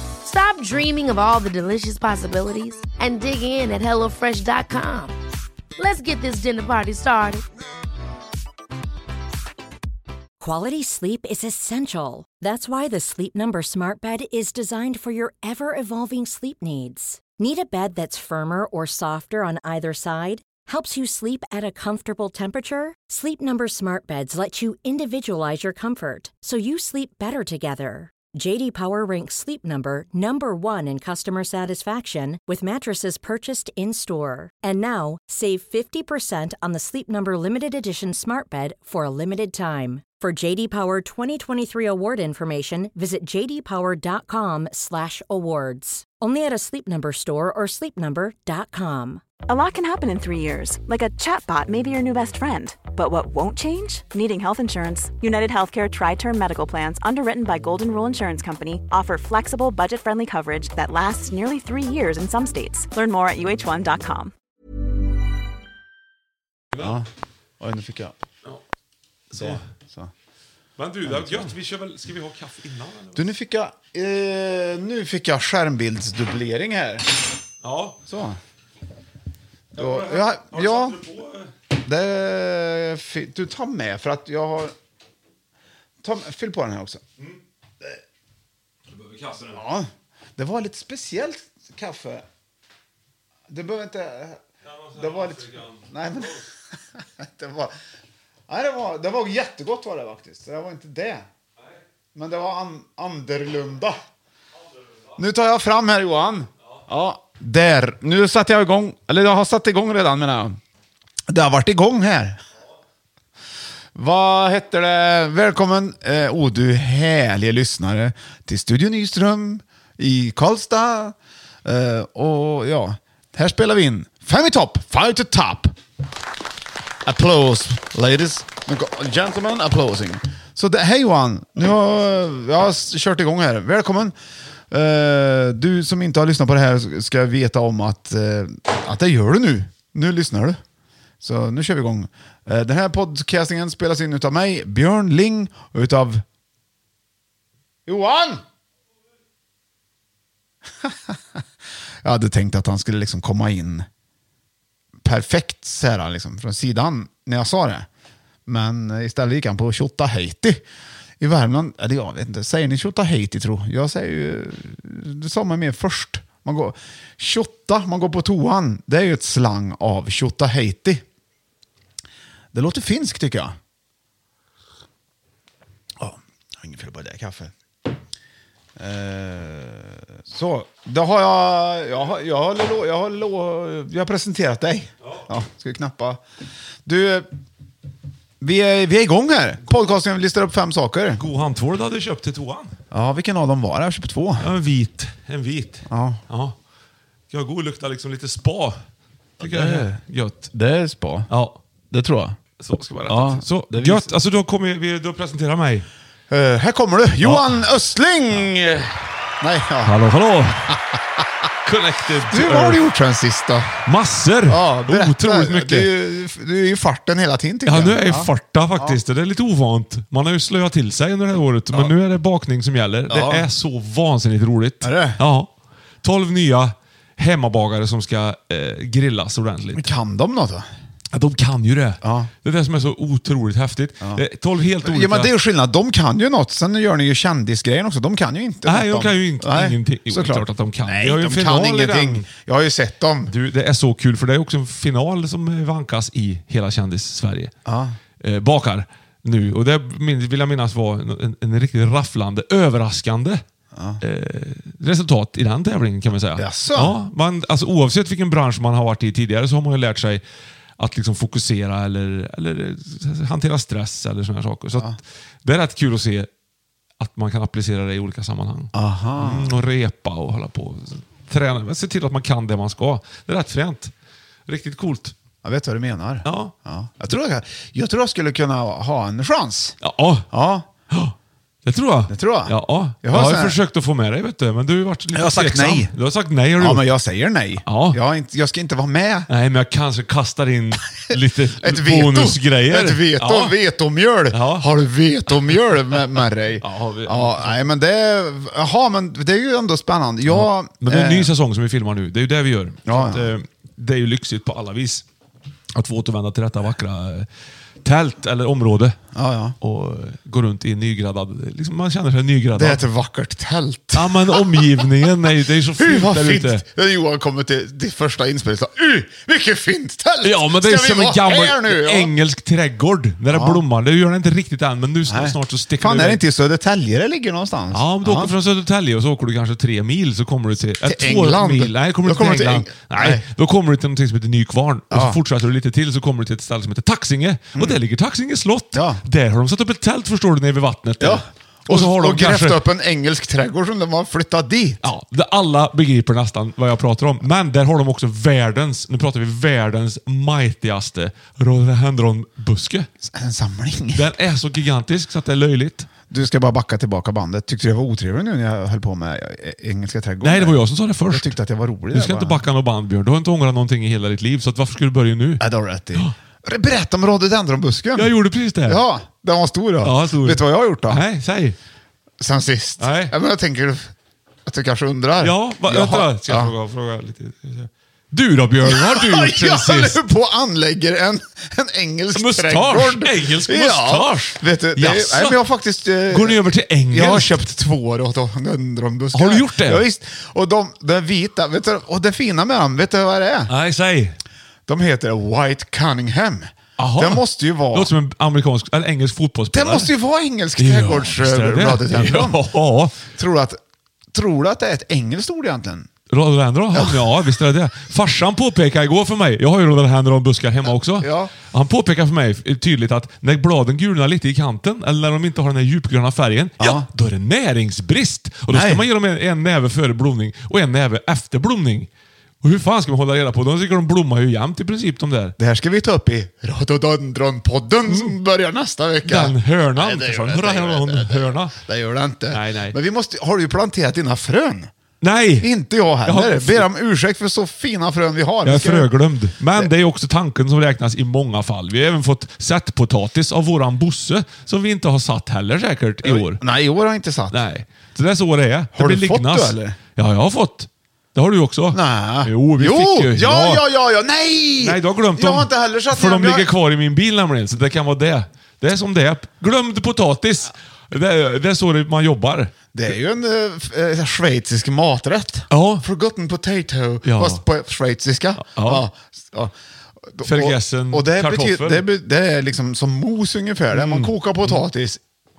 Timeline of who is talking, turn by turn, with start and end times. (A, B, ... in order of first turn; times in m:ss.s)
0:00.2-0:05.2 A
0:05.8-0:07.4 A
0:10.4-0:49.2 B
0:49.5-1:04.3 C
1:06.7-1:07.0 D
1:06.8-1:07.1 E
1:07.6-1:08.2 E
1:09.3-1:09.6 D
1:09.3-1:10.1 E
1:10.8-1:13.3 D
1:11.0-1:11.5 E
1:13.2-1:17.1 E
1:17.6-1:18.0 D
1:18.1-1:18.4 E
1:19.8-1:21.0 E
1:19.8-1:21.5 D
1:21.8-1:24.7 E
1:26.0-1:27.0 E
1:28.9-1:29.6 D
1:29.5-1:32.2 E
1:33.5-1:34.4 E
1:34.7-1:36.3 D
1:35.0-1:37.7 E
1:38.5-1:41.2 E
1:42.2-1:44.0 E
1:45.2-1:50.6 E
1:51.3-1:52.4 E
1:54.0-2:05.8 E
2:07.0-2:14.2 E
2:14.7-2:20.6 E
2:21.2-2:26.2 E
2:27.9-2:28.4 E
2:30.8-2:31.4 E
2:32.0-2:33.9 E
2:35.0-2:37.9 E
2:38.5-2:40.6 E
2:41.2-2:51.0 E
2:52.5-2:53.6 E
2:56.0-2:57.5 E
2:58.8-3:06.2 E
3:06.9-3:07.3 E
3:08.4-3:11.2 E
3:11.2-3:12.8 D
3:12.9-3:14.5 E
3:14.4-3:16.6 D
3:15.9-3:16.2 E
3:17.3-3:18.8 D
3:19.4-3:20.0 E
3:19.4-3:20.5 D
3:20.5-3:21.3 E
3:21.3-3:21.6 D
3:21.9-3:22.4 E
3:22.6-3:25.9 D
3:23.1-3:24.1 E
3:26.3-3:30.0 E
3:27.2-3:27.6 D
3:29.8-3:30.8 D
3:31.7-3:32.8 D
3:32.3-3:33.7 E
3:33.9-3:35.9 D
3:34.5-3:39.0 E
3:37.7-3:45.5 D
3:43.1-3:43.5 E
3:44.8-3:45.2 E
3:46.0-3:50.0 D
3:49.8-3:50.7 E
3:51.1-3:55.3 D
3:52.0-3:52.3 E
3:54.8-4:03.3 E
3:58.7-4:02.3 D
4:03.3-4:07.5 D
4:07.7-4:08.0 E
4:08.2-4:13.4 D
4:13.7-4:14.0 E
4:14.0-4:20.2 D
4:16.4-4:17.0 E
4:20.8-4:26.3 D
4:27.0-4:33.9 D
4:28.7-4:29.5 E
4:34.5-4:35.2 D
4:35.4-4:39.8 E
4:36.2-4:36.5 D
4:39.8-4:40.3 D
4:40.3-4:40.7 E
4:41.6-4:46.9 D
4:42.1-4:43.6 E
4:45.1-4:45.9 E
4:46.6-4:49.3 E
4:47.7-4:48.0 D
4:49.3-4:53.6 D
4:51.6-5:01.3 E
4:54.3-4:54.7 D
4:56.6-4:57.6 D
5:00.3-5:05.0 D
5:02.9-5:03.3 E
5:05.8-5:07.3 D
5:07.8-5:09.0 D
5:09.2-5:09.6 E
5:09.6-5:12.8 D
5:12.6-5:14.9 E
5:13.9-5:16.6 D
5:15.8-5:22.1 E
5:20.2-5:26.2 D
5:23.3-5:23.6 E
5:25.1-5:28.3 E
5:27.7-5:42.6 D
5:30.8-5:33.2 E
5:34.9-5:35.2 E
5:38.7-5:39.0 E
5:41.0-5:44.8 E
5:44.8-5:52.9 D
5:53.0-5:54.1 E
5:53.9-5:55.9 D
5:56.1-6:02.4 E
6:00.2-6:01.3 D
6:01.9-6:06.1 D
6:05.4-6:08.2 E
6:08.0-6:08.8 D
6:08.7-6:11.0 E
6:09.8-6:11.6 D
6:12.2-6:13.9 E
6:12.8-6:13.1 D
6:14.5-6:16.5 E
6:15.2-6:20.0 D
6:18.6-6:33.5 E
6:22.1-6:25.4 D
6:26.1-6:27.4 D
6:29.1-6:29.8 D
6:33.5-6:34.2 D
6:34.7-6:37.9 E
6:36.8-6:39.9 D
6:39.5-6:42.4 E
6:40.6-6:43.0 D
6:43.0-6:43.6 E
6:44.1-6:45.9 E
6:46.1-7:01.9 D
6:46.7-6:47.2 E
6:51.0-6:51.3 E
6:56.6-6:56.9 E
6:58.5-6:58.8 E
7:02.4-7:05.4 D
7:05.4-7:14.7 E
7:07.9-7:08.2 D
7:09.0-7:11.5 D
7:12.3-7:12.8 D
7:15.0-7:15.5 D
7:15.4-7:18.9 E
7:16.0-7:16.7 D
7:18.4-7:26.4 D
7:26.0-7:27.4 E
7:27.3-7:33.6 D
7:28.8-7:29.8 E
7:31.7-7:36.5 E
7:34.6-7:42.5 D
7:42.7-7:55.0 E
7:45.5-7:45.8 D
7:47.0-7:47.4 D
7:48.4-7:48.8 D
7:50.2-7:51.9 D
7:53.7-7:54.6 D